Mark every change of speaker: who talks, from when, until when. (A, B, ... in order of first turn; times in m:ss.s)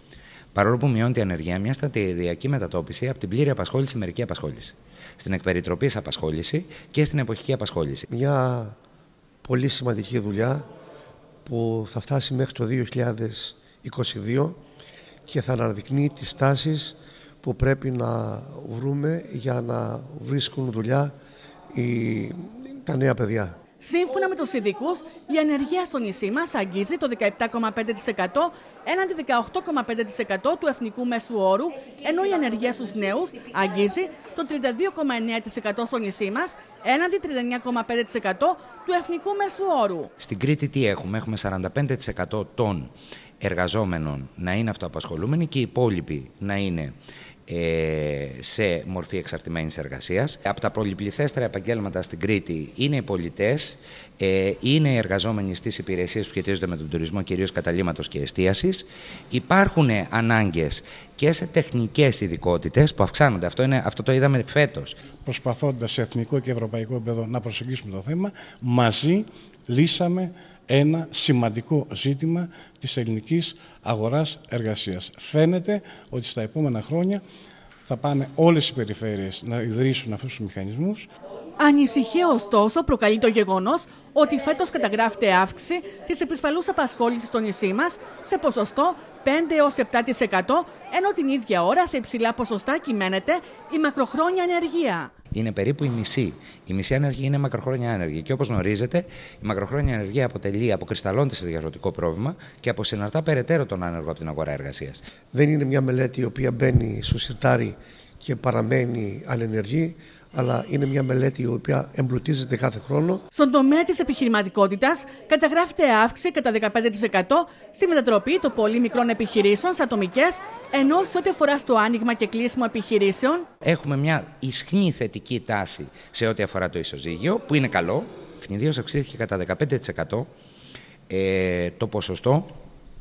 0:00.5-0:08.1 A
0:08.1-0:08.8 B
0:09.4-0:10.6 B
0:11.4-0:14.6 B
0:15.3-0:21.1 B
0:21.7-0:23.6 B
0:23.8-0:40.1 C
0:40.2-0:47.0 A
0:47.5-1:05.0 A
1:05.2-1:17.2 D
1:17.9-1:21.0 D
1:21.6-1:35.1 C
1:35.3-1:45.0 A
1:45.3-1:53.2 B
1:53.3-2:03.5 C
2:03.6-2:10.3 A
2:11.1-2:12.5 A